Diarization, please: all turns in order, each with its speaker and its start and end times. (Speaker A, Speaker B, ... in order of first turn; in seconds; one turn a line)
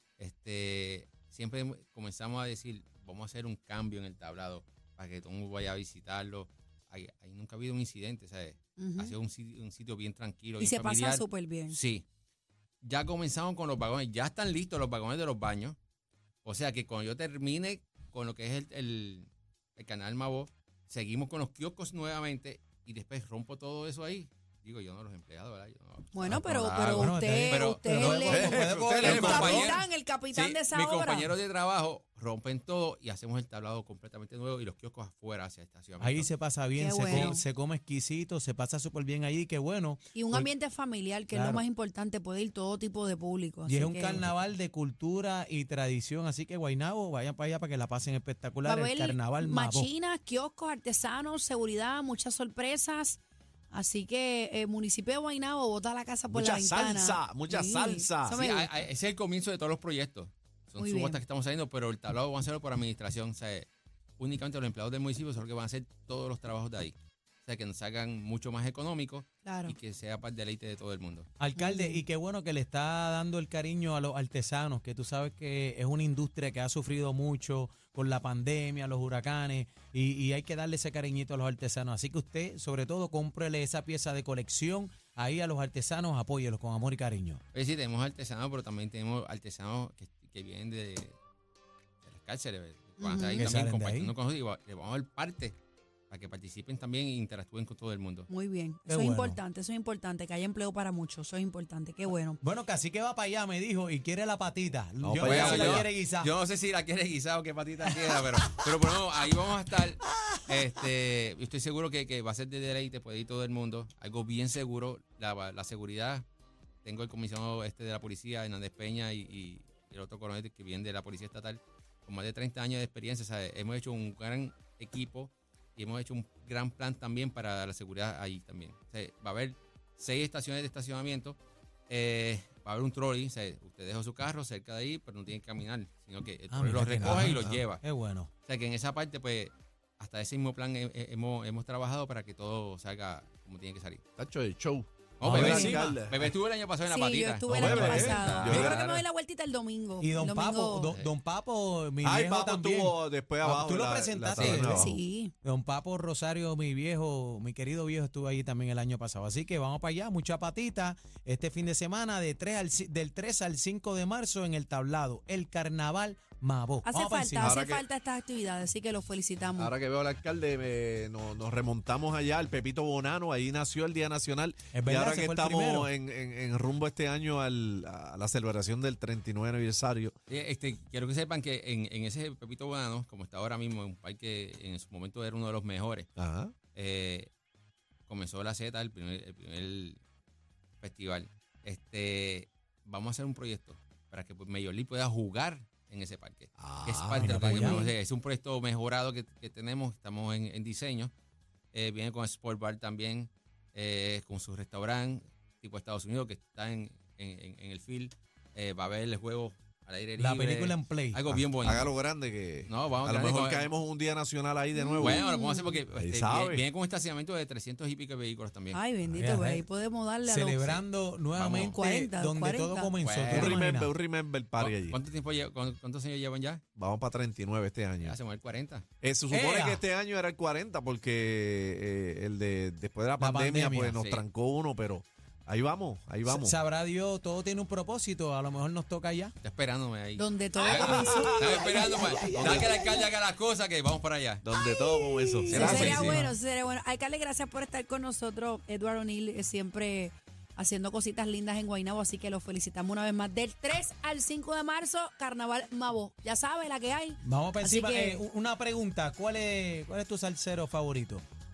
Speaker A: 0.2-12.0
Speaker B: 8.8-9.2
Speaker B: 10.6-11.8
Speaker A: 12.8-15.8
Speaker A: 16.4-36.3
Speaker B: 26.1-31.3
Speaker C: 26.2-29.6
Speaker D: 28.3-29.7
Speaker C: 36.0-40.5
Speaker B: 36.8-37.4
Speaker A: 37.1-37.3
Speaker B: 40.1-44.2
Speaker C: 41.3-41.6
Speaker C: 43.6-49.9
Speaker B: 48.6-58.7
Speaker D: 56.3-58.4
Speaker A: 58.3-63.7
Speaker B: 60.8-61.2
Speaker A: 64.2-71.3
Speaker B: 69.4-69.7
Speaker C: 71.4-87.4
Speaker B: 71.5-72.0
Speaker A: 87.5-91.2
Speaker A: 92.0-95.5
Speaker B: 93.0-93.5
Speaker C: 93.4-94.1
Speaker A: 96.1-98.3
Speaker B: 98.3-102.4
Speaker C: 98.8-99.4
Speaker C: 102.4-106.3
Speaker D: 105.0-105.8
Speaker A: 105.2-116.2
Speaker A: 116.8-131.4
Speaker A: 131.9-137.8
Speaker C: 136.5-138.3
Speaker D: 137.0-137.6
Speaker A: 138.4-144.0
Speaker D: 144.2-146.3
Speaker A: 145.2-149.0
Speaker C: 145.2-146.0
Speaker B: 145.3-145.8
Speaker B: 146.9-150.9
Speaker D: 147.5-148.8
Speaker C: 150.0-167.6
Speaker A: 150.9-151.1
Speaker D: 152.0-154.9
Speaker A: 154.3-154.7
Speaker B: 154.7-155.3
Speaker B: 166.8-169.7
Speaker D: 167.4-167.8
Speaker D: 169.6-180.1
Speaker C: 174.7-175.9
Speaker A: 180.3-186.1
Speaker D: 186.2-186.5
Speaker A: 186.7-187.3
Speaker A: 188.1-190.0
Speaker A: 190.8-201.1
Speaker D: 196.6-197.3
Speaker C: 197.2-197.9
Speaker B: 197.5-197.9
Speaker A: 201.7-211.9
Speaker C: 210.2-211.3
Speaker D: 211.5-215.3
Speaker A: 212.7-213.7
Speaker B: 214.7-215.8
Speaker A: 215.0-218.8
Speaker D: 215.9-216.6
Speaker B: 218.7-220.8
Speaker C: 219.0-219.6
Speaker C: 220.2-223.9
Speaker A: 221.3-221.8
Speaker B: 221.7-222.9
Speaker A: 223.0-223.6
Speaker D: 223.3-225.0
Speaker A: 224.6-226.6
Speaker D: 226.8-228.2
Speaker A: 228.0-228.8
Speaker D: 229.0-236.6
Speaker C: 229.3-229.8
Speaker C: 233.2-233.9
Speaker A: 233.9-234.2
Speaker C: 236.2-239.3
Speaker A: 239.4-244.4
Speaker B: 240.2-242.1
Speaker D: 240.8-242.7
Speaker C: 240.9-243.1
Speaker D: 244.4-246.2
Speaker A: 245.4-246.1
Speaker C: 245.4-246.3
Speaker B: 245.5-258.2
Speaker C: 257.2-261.2